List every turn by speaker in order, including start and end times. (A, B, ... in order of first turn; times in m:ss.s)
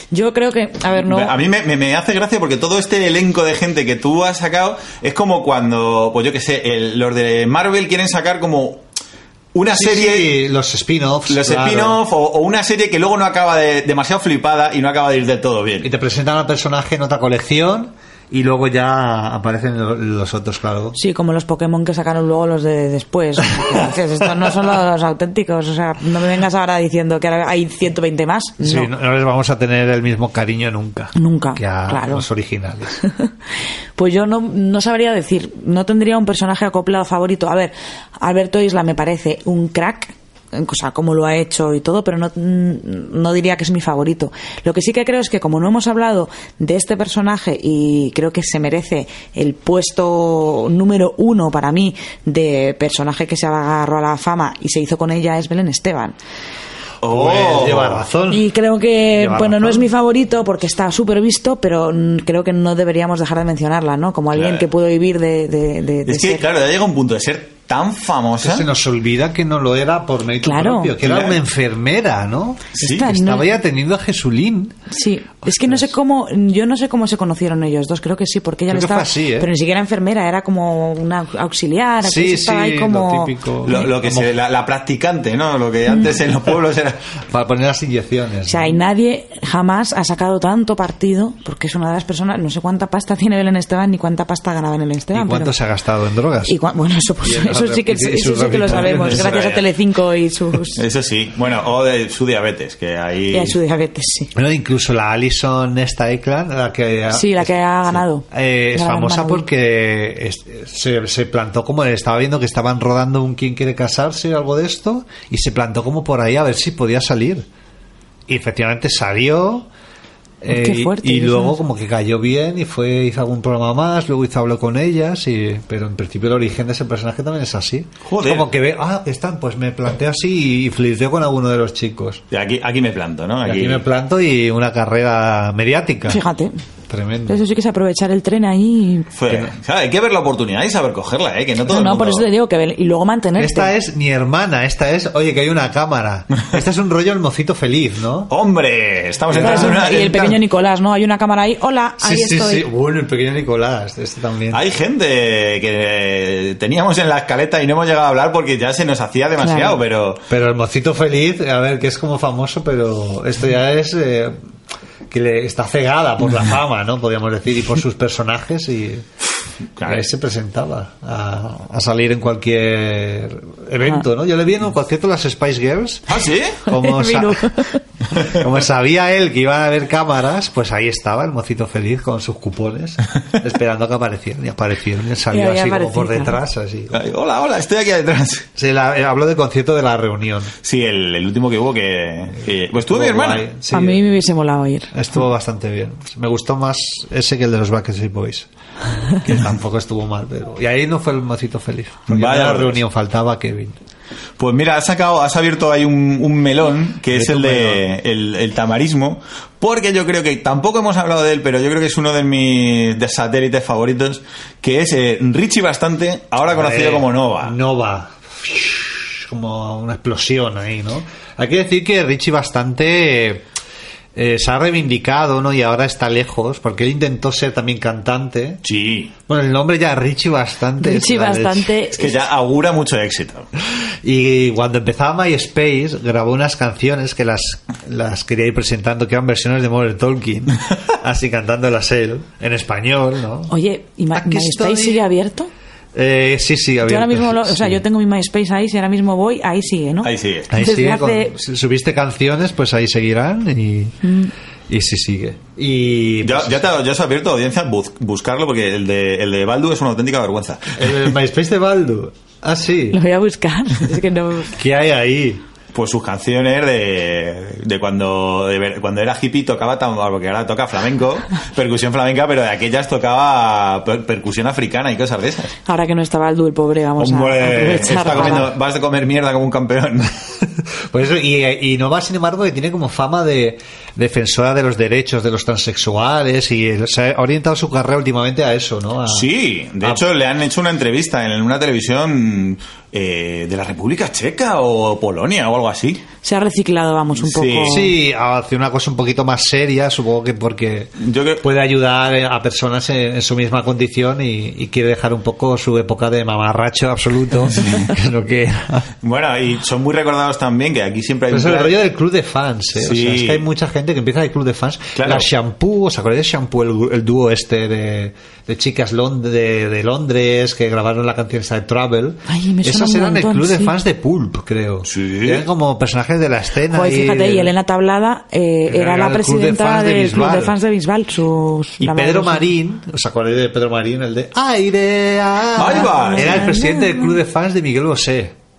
0:00.1-0:01.4 A
0:01.0-0:08.8 B
0:09.5-0:10.4 B
0:09.7-0:12.0 C
0:11.3-0:15.9 B
0:15.8-0:21.0 C
0:21.0-0:28.9 A
0:28.6-0:33.0 C
0:31.2-0:32.3 A
0:33.0-0:33.3 A
0:34.0-0:56.2 A
0:57.0-0:58.0 B
0:57.1-0:58.5 C
0:58.3-1:06.4 A
0:59.1-0:59.9 C
1:04.3-1:04.6 B
1:06.1-1:08.7 B
1:08.4-1:14.8 C
1:10.4-1:10.9 A
1:11.0-1:11.4 B
1:12.8-1:13.1 B
1:12.8-1:13.5 A
1:14.9-1:23.9 A
1:15.4-1:15.9 C
1:18.7-1:19.5 C
1:22.0-1:24.3 C
1:23.6-1:27.0 B
1:27.3-1:28.8 C
1:28.5-1:35.5 A
1:35.1-1:36.6 C
1:36.5-1:40.8 A
1:37.2-1:39.4 C
1:38.7-1:39.7 B
1:40.8-1:43.6 B
1:43.3-1:44.3 A
1:44.4-1:57.5 C
1:47.1-1:49.5 A
1:58.3-1:59.7 C
2:00.4-2:12.2 C
2:00.5-2:01.6 A
2:08.1-2:08.5 B
2:12.3-2:13.8 B
2:13.4-2:16.2 C
2:16.1-2:16.5 A
2:16.9-2:17.4 C
2:17.3-2:19.1 A
2:19.2-2:22.3 B
2:21.7-2:23.7 A
2:23.4-2:28.3 C
2:28.3-2:30.4 B
2:29.3-2:30.0 C
2:29.4-2:32.7 A
2:32.0-2:34.6 C
2:34.5-2:40.2 B
2:39.4-2:39.8 A
2:40.3-2:44.4 C
2:45.1-2:49.0 C
2:49.8-2:50.1 B
2:49.8-2:57.5 C
2:56.1-2:56.6 B
2:56.7-2:57.8 A
2:58.1-3:07.0 C
3:05.3-3:06.4 A
3:06.9-3:08.5 B
3:08.6-3:10.5 C
3:10.6-3:13.5 B
3:12.8-3:14.0 C
3:13.7-3:14.9 A
3:14.9-3:18.5 C
3:19.1-3:23.8 C
3:22.1-3:22.8 B
3:24.4-3:37.6 B
3:27.1-3:27.8 C
3:36.5-3:43.4 C
3:44.2-3:48.6 C
3:48.6-3:49.1 B
3:49.3-3:51.7 C
3:50.8-3:52.2 A
3:52.0-3:53.5 B
3:54.0-4:03.5 C
4:03.5-4:05.5 A
4:04.1-4:05.0 C
4:06.0-4:07.8 C
4:06.8-4:11.4 A
4:10.0-4:10.5 B
4:10.5-4:14.0 C
4:14.0-4:14.3 A
4:14.7-4:16.7 C
4:16.2-4:21.0 B
4:20.8-4:23.0 C
4:22.9-4:24.6 A
4:24.6-4:25.4 C
4:25.7-4:35.5 B
4:35.7-4:38.5 A
4:37.0-4:40.2 B
4:38.0-4:38.4 C
4:40.9-4:49.3 C
4:49.1-4:56.0 B
4:56.2-4:57.9 A
4:57.2-4:57.9 B
4:57.7-5:08.9 C
5:01.0-5:01.4 B
5:07.6-5:07.9 B
5:09.0-5:11.8 B
5:11.3-5:27.5 C
5:12.8-5:13.4 B
5:15.0-5:15.3 B
5:22.3-5:23.8 A
5:24.9-5:25.5 B
5:26.7-5:32.5 A
5:28.7-5:30.6 C
5:31.8-5:38.4 C
5:35.6-5:36.5 B
5:35.8-5:37.1 A